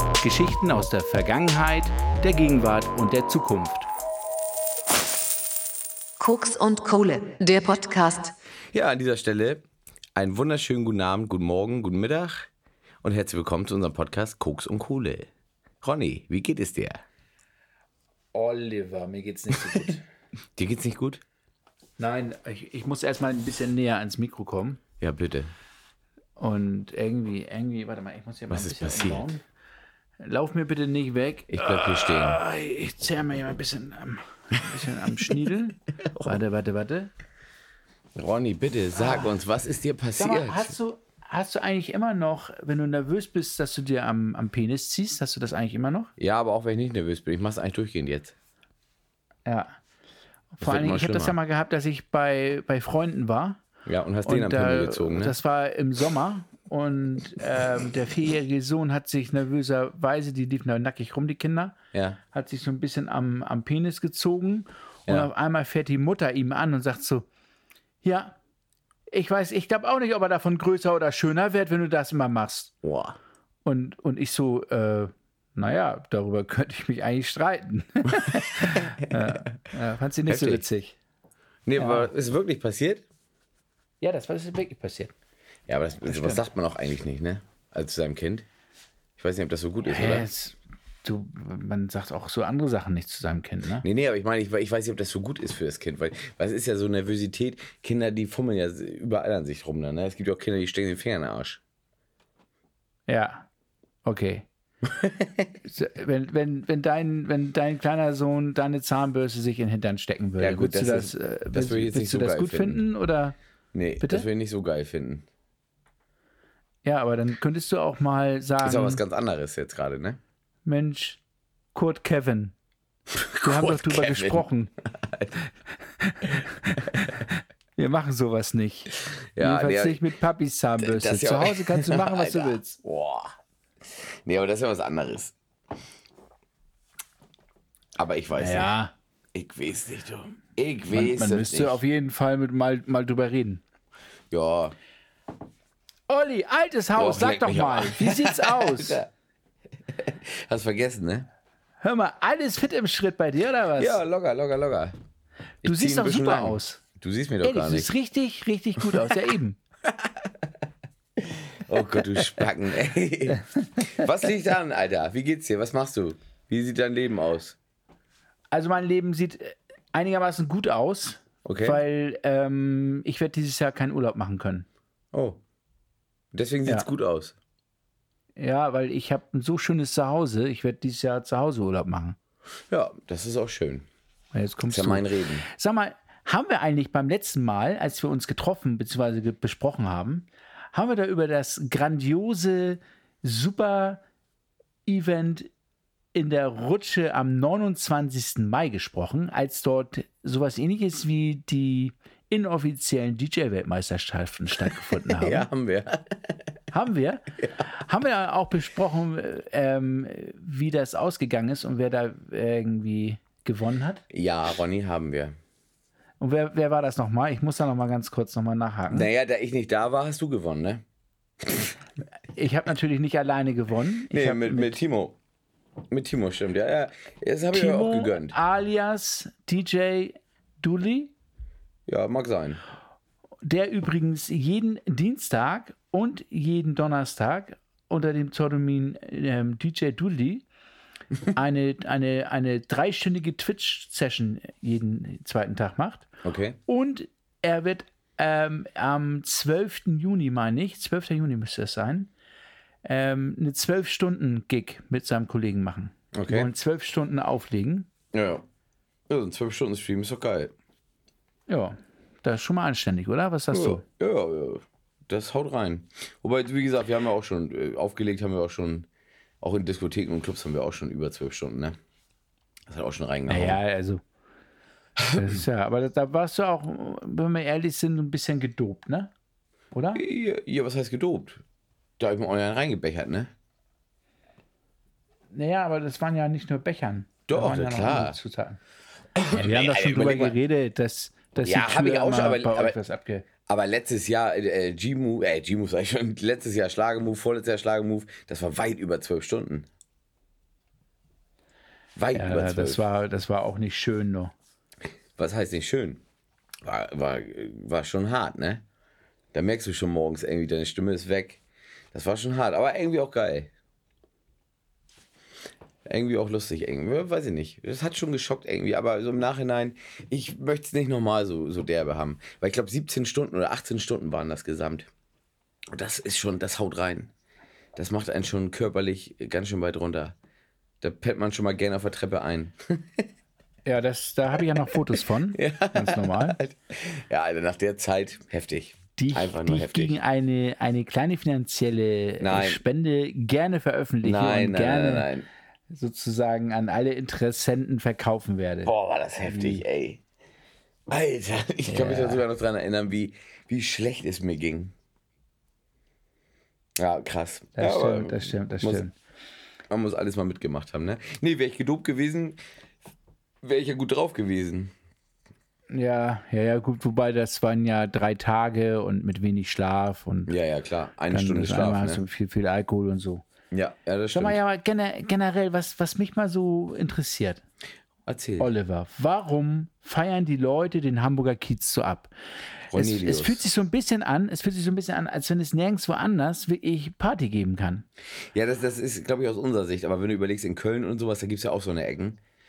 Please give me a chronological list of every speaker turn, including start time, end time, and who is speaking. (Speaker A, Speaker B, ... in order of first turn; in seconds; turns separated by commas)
Speaker A: 0.2-3.9, Speaker B: 6.2-8.3, Speaker C: 8.7-12.5, Speaker C: 13.0-15.3, Speaker C: 15.8-17.0, Speaker A: 18.3-20.0, Speaker C: 20.6-21.2, Speaker A: 22.0-24.8, Speaker C: 25.0-25.5, Speaker A: 26.4-29.4, Speaker C: 28.5-29.3, Speaker A: 30.2-37.1, Speaker C: 31.5-32.4, Speaker C: 36.1-36.4, Speaker C: 38.1-40.8, Speaker A: 39.0-39.3, Speaker A: 40.2-46.1, Speaker C: 46.2-48.4, Speaker A: 49.5-49.8, Speaker A: 50.5-53.6, Speaker C: 50.6-51.4, Speaker C: 53.9-55.4, Speaker A: 54.2-61.8, Speaker C: 61.9-62.2, Speaker A: 62.3-67.3, Speaker A: 68.0-68.4, Speaker A: 69.1-72.8, Speaker C: 72.8-73.2, Speaker A: 73.7-81.0, Speaker C: 78.3-79.6, Speaker C: 80.3-80.6, Speaker C: 81.7-83.0, Speaker A: 81.8-82.1, Speaker A: 84.0-85.1, Speaker C: 85.7-88.5, Speaker A: 86.1-86.4, Speaker C: 89.2-90.3, Speaker A: 89.9-93.8, Speaker C: 93.8-101.6, Speaker A: 103.1-103.5, Speaker A: 104.0-104.5, Speaker C: 104.8-105.5, Speaker A: 105.7-113.3, Speaker C: 110.4-112.8, Speaker C: 113.7-115.3, Speaker A: 114.0-114.3, Speaker A: 116.8-119.0, Speaker C: 118.6-120.2, Speaker A: 120.7-121.2, Speaker A: 121.8-122.5, Speaker C: 123.1-125.4, Speaker A: 123.4-124.7, Speaker A: 126.0-132.8, Speaker C: 129.4-130.1, Speaker C: 130.8-133.3, Speaker C: 133.9-135.3, Speaker C: 138.0-138.7, Speaker A: 138.3-138.9, Speaker C: 139.3-141.8, Speaker A: 140.9-143.6, Speaker C: 144.3-144.8, Speaker A: 146.1-149.0, Speaker C: 147.0-149.1, Speaker C: 149.9-151.3, Speaker A: 151.8-154.0, Speaker C: 153.8-154.9, Speaker C: 155.6-157.9, Speaker A: 155.7-156.8, Speaker A: 157.4-159.6, Speaker C: 158.8-159.1, Speaker C: 160.0-160.3, Speaker C: 161.2-167.6, Speaker A: 168.5-174.7, Speaker C: 171.4-171.8, Speaker C: 175.1-175.4, Speaker C: 176.3-177.3, Speaker A: 178.4-182.2, Speaker C: 182.7-183.9, Speaker A: 184.3-194.0, Speaker C: 184.7-185.5, Speaker A: 194.9-195.5, Speaker A: 196.2-205.5, Speaker C: 204.9-206.4, Speaker A: 206.7-214.0, Speaker C: 214.1-215.3, Speaker A: 216.2-219.1, Speaker C: 218.9-220.8, Speaker C: 221.4-221.7, Speaker A: 222.3-224.8, Speaker C: 224.1-225.2, Speaker C: 225.9-228.4, Speaker A: 227.5-231.1, Speaker C: 231.9-232.6, Speaker A: 233.4-240.4, Speaker A: 241.3-246.1, Speaker C: 246.2-246.6, Speaker A: 246.7-252.1, Speaker A: 252.8-257.9, Speaker C: 256.1-256.5, Speaker C: 258.1-258.4, Speaker C: 259.1-260.5, Speaker A: 261.5-263.8, Speaker C: 263.5-268.9, Speaker C: 269.4-271.8, Speaker C: 272.7-273.6, Speaker A: 273.3-274.0, Speaker C: 275.0-275.4, Speaker A: 275.1-279.1, Speaker A: 279.7-280.0, Speaker C: 279.9-281.4, Speaker C: 282.0-283.3, Speaker A: 285.3-288.6, Speaker C: 287.3-288.2, Speaker C: 289.2-290.4, Speaker A: 289.3-293.3, Speaker C: 291.4-292.8, Speaker C: 293.5-299.7, Speaker C: 301.9-302.8, Speaker A: 302.1-304.3, Speaker C: 305.2-306.0, Speaker C: 306.6-308.6, Speaker C: 309.3-311.4, Speaker C: 311.9-313.5, Speaker C: 315.9-324.9, Speaker C: 325.7-327.1, Speaker C: 327.8-330.1, Speaker C: 330.8-333.1, Speaker A: 333.7-336.4, Speaker C: 334.4-340.0, Speaker A: 339.0-345.1, Speaker C: 342.2-342.6, Speaker C: 344.0-345.3, Speaker A: 345.7-349.6, Speaker C: 348.6-350.0, Speaker C: 350.9-354.7, Speaker A: 351.6-352.2, Speaker C: 356.8-358.9, Speaker A: 357.6-358.9, Speaker C: 359.7-362.4, Speaker C: 363.4-364.7, Speaker A: 365.7-370.3, Speaker C: 370.3-372.0, Speaker A: 371.1-373.2, Speaker C: 373.5-374.4, Speaker A: 374.1-377.4, Speaker C: 378.1-378.5, Speaker A: 378.4-382.1, Speaker C: 382.7-383.4, Speaker A: 382.7-387.9, Speaker C: 388.3-392.2